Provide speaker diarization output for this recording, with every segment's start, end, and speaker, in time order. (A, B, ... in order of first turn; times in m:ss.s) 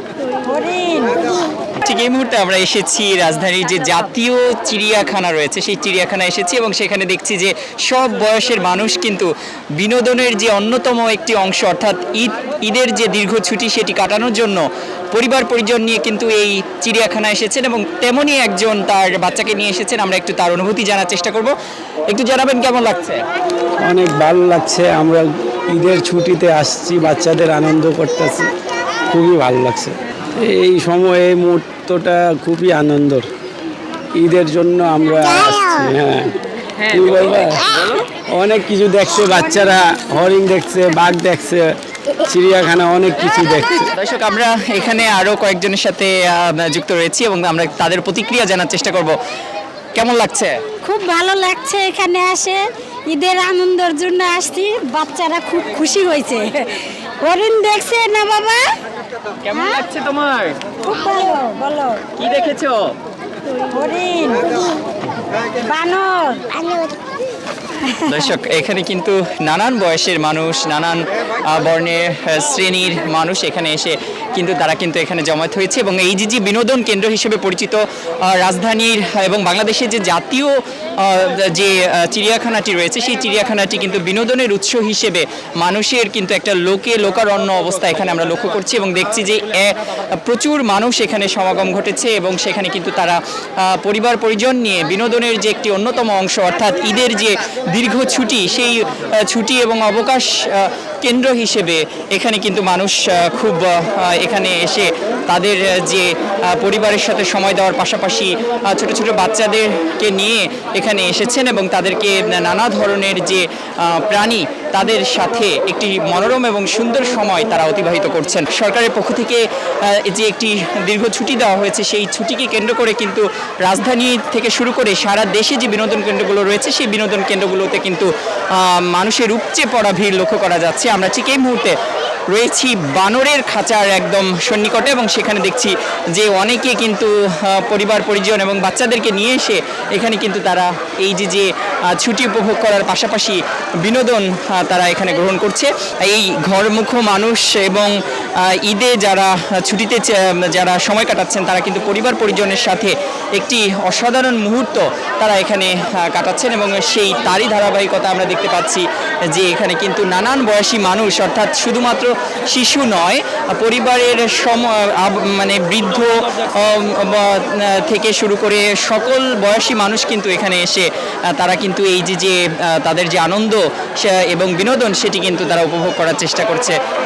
0:00.4-0:01.4 A
0:01.8-0:21.5 B
0:22.1-0:23.2 B
0:23.9-0:28.5 C
0:29.1-0:33.3 C
0:34.2-0:41.7 C
0:42.2-0:43.9 C
0:44.0-0:49.2 B
0:50.0-0:50.6 B
0:50.8-0:58.7 A
0:59.5-0:59.9 A
0:59.5-1:00.7 B
1:00.8-1:02.1 A
1:02.2-1:02.9 B
1:03.7-1:04.8 A
1:05.5-1:07.0 A
1:07.8-1:08.3 A
1:08.1-2:11.8 B
2:12.3-2:27.9 B
2:28.5-2:56.8 B